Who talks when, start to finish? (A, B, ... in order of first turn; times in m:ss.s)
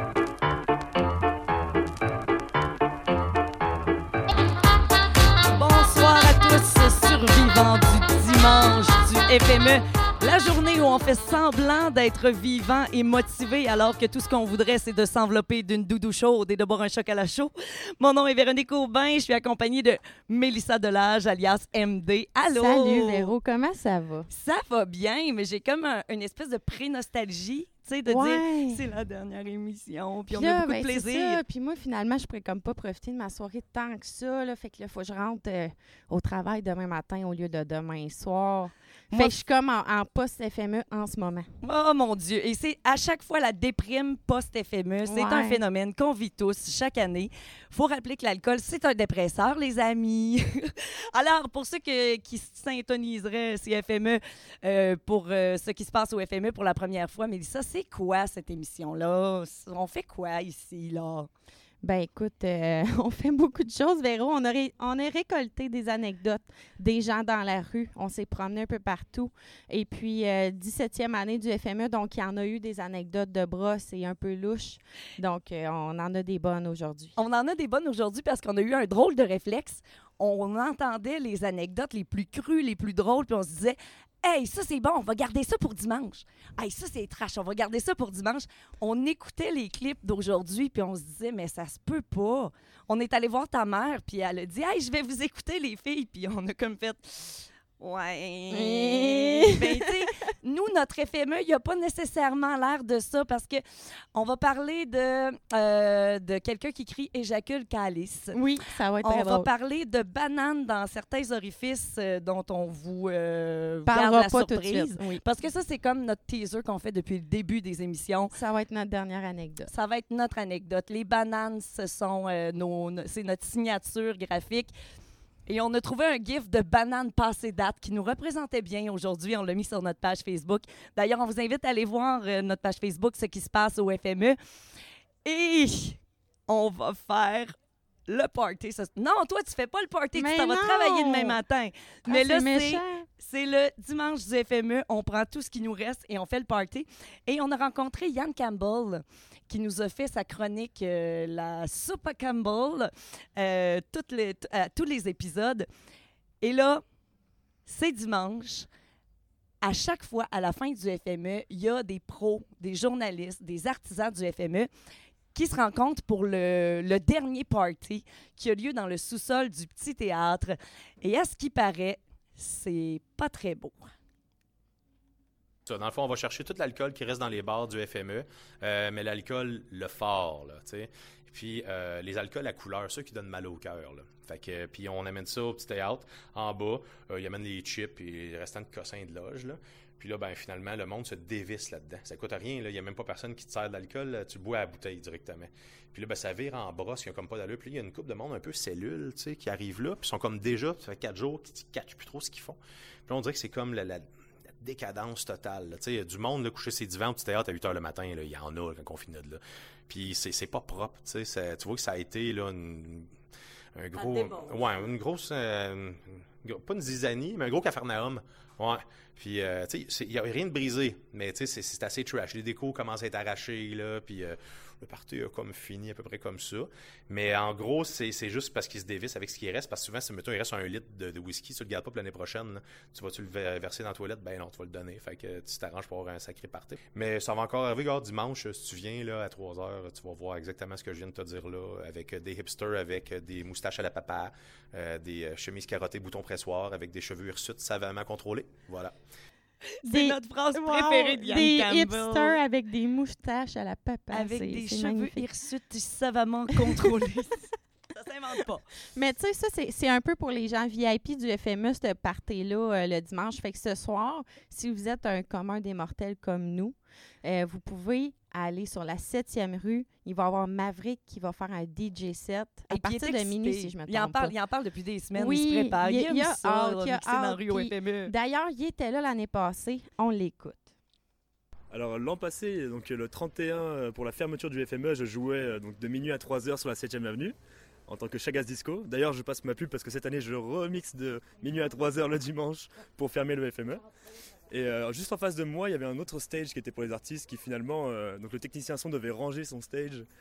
0:05.5-0:23.3 A
0:22.5-0:24.3 B
0:24.3-0:31.4 A
0:28.0-0:28.8 B
0:30.3-0:41.5 B
0:39.1-0:39.4 A
0:41.6-1:01.3 A
0:45.1-0:45.6 B
1:01.8-1:17.2 B
1:17.2-1:43.6 A
1:38.5-1:39.9 B
1:44.2-1:48.4 A
1:48.3-1:49.5 B
1:49.0-1:58.3 A
1:53.9-1:55.2 B
1:58.3-1:59.7 B
1:59.7-2:04.7 A
2:05.5-2:14.4 A
2:15.2-2:17.6 A
2:18.1-2:35.7 A
2:20.2-2:21.4 B
2:22.1-2:23.1 B
2:36.4-2:36.8 A
2:37.7-2:38.7 A
2:39.6-2:44.7 A
2:45.3-2:53.9 A
2:55.7-3:24.1 C
3:24.6-3:33.1 C
3:33.8-4:08.9 C
4:09.8-4:12.4 A
4:09.9-4:15.3 B
4:14.1-4:18.6 A
4:19.0-4:34.3 B
4:32.7-4:38.1 A
4:35.2-4:40.7 B
4:41.7-4:47.4 D
4:47.9-4:53.8 D
4:54.5-5:00.1 D